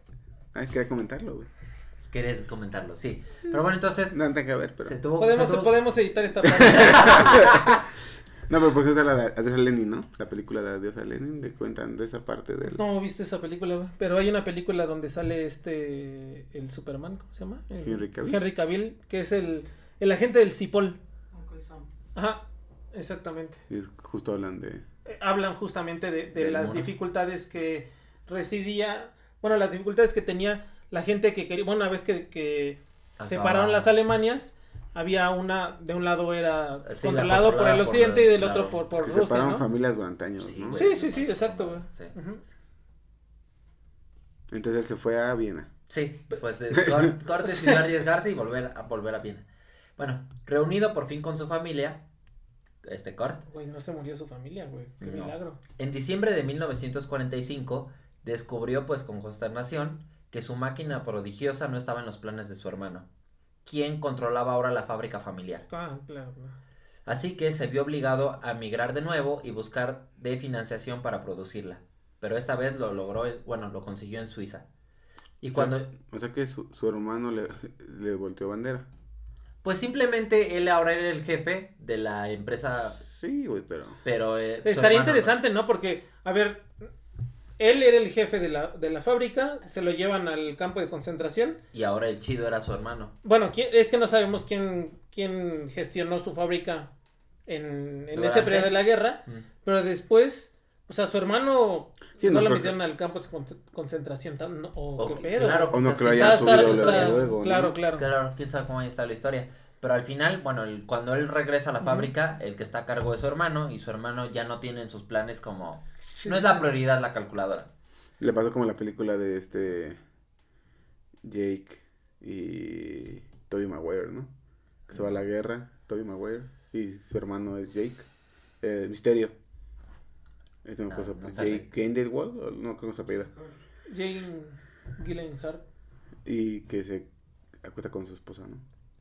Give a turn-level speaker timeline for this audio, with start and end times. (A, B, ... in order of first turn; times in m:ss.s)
0:00.5-0:01.5 A
0:02.1-0:05.8 B
0:04.1-0:05.0 A
0:05.2-0:07.5 C
0:06.5-0:07.8 B
0:06.9-0:07.7 A
0:08.5-0:12.8 A
0:12.7-0:23.6 C
0:17.8-0:18.4 A
0:23.7-0:24.8 A
0:25.0-0:39.6 C
0:26.4-0:26.9 B
0:33.2-0:33.9 B
0:36.8-0:38.8 B
0:38.9-0:40.8 A
0:40.4-0:42.2 B
0:40.7-0:42.4 C
0:44.5-0:45.7 A
0:45.9-0:49.4 B
0:46.7-0:47.1 A
0:47.5-0:47.8 C
0:50.0-0:52.0 B
0:52.8-0:53.4 B
0:53.5-0:55.6 C
0:55.0-1:03.1 B
1:03.6-1:05.6 B
1:05.7-1:06.6 C
1:07.0-1:14.6 B
1:15.4-1:15.9 B
1:15.5-1:18.9 A
1:19.6-1:23.0 B
1:23.0-1:24.0 A
1:24.0-1:25.3 B
1:24.6-1:26.7 C
1:27.6-1:31.6 C
1:31.7-1:33.1 B
1:33.2-1:36.9 C
1:37.5-1:48.0 C
1:38.1-1:39.4 B
1:42.2-1:42.8 A
1:45.0-1:47.3 B
1:45.7-1:47.8 A
1:47.9-1:57.7 B
1:51.8-1:52.1 C
1:56.2-1:56.7 C
1:58.2-2:00.0 A
2:01.2-2:04.3 A
2:04.9-2:08.1 A
2:08.6-2:09.3 A
2:10.6-2:13.3 A
2:10.9-2:11.7 B
2:13.9-2:15.6 C
2:16.2-2:17.1 A
2:17.6-2:18.6 A